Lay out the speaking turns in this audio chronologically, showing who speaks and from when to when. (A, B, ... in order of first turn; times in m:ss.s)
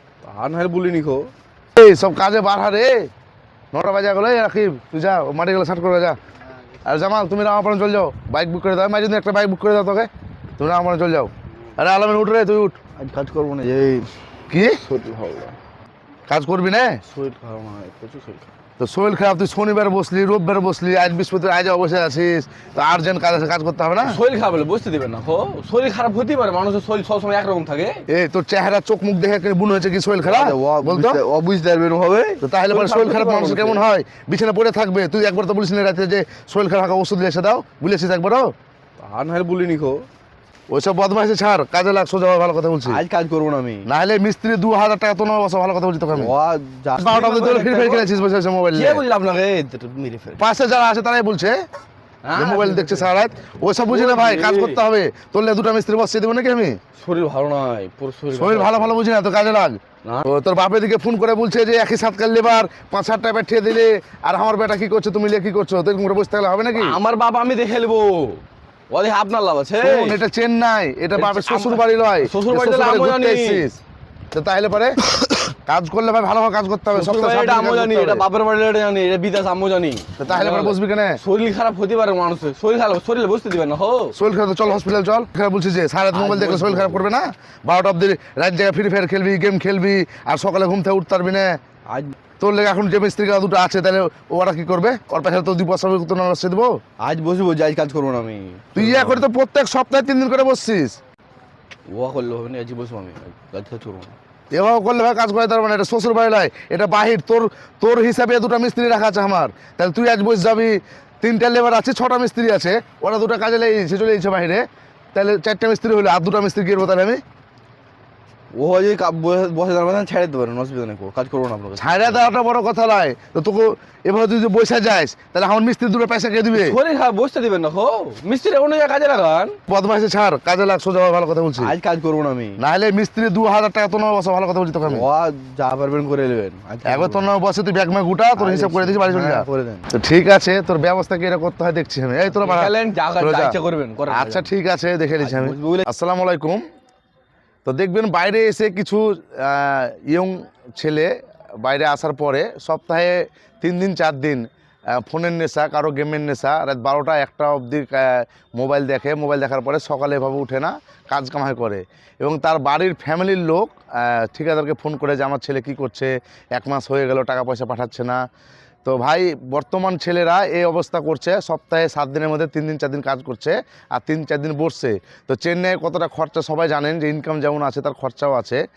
0:00.2-0:01.3 A
0:01.8-0:03.1 B
0:03.7-0:06.2 B
0:06.8-0:12.8 B
0:13.0-0:14.1 A
0:14.5-0:14.8 B
0:14.7-0:15.6 A
0:16.3-0:17.0 B
0:17.0-0:18.5 A
0:18.8-0:24.2 B
0:24.0-0:28.0 A
0:28.1-0:31.2 B
0:30.2-0:33.8 A
0:32.4-0:38.5 B
0:39.0-0:40.0 A
0:40.7-0:43.0 B
0:42.8-0:43.9 A
0:43.8-0:46.3 B
0:46.1-0:48.1 A
0:47.0-0:49.0 B
0:48.7-0:50.4 A
0:50.4-0:51.6 B
0:52.2-0:53.1 A
0:52.4-0:56.8 B
0:53.8-0:54.8 A
0:57.0-0:59.0 A
0:58.3-1:07.0 B
1:06.7-1:10.2 A
1:09.8-1:13.8 B
1:11.1-1:13.7 A
1:14.3-1:15.0 B
1:15.6-1:18.2 B
1:16.9-1:24.2 A
1:20.2-1:21.2 B
1:24.1-1:31.6 B
1:26.1-1:27.1 A
1:31.9-1:32.1 A
1:32.4-1:36.8 B
1:37.0-1:39.2 A
1:38.7-1:41.0 B
1:41.9-1:44.1 A
1:44.5-1:57.2 B
1:58.5-2:02.3 A
2:01.8-2:06.8 B
2:06.5-2:09.6 A
2:09.7-2:11.7 B
2:11.6-2:12.6 A
2:12.6-2:15.0 B
2:14.8-2:17.3 A
2:16.8-2:23.6 B
2:18.4-2:19.9 A
2:22.3-2:24.5 A
2:24.1-2:26.6 B
2:25.2-2:25.9 A
2:27.6-2:48.2 B
2:48.8-2:58.6 B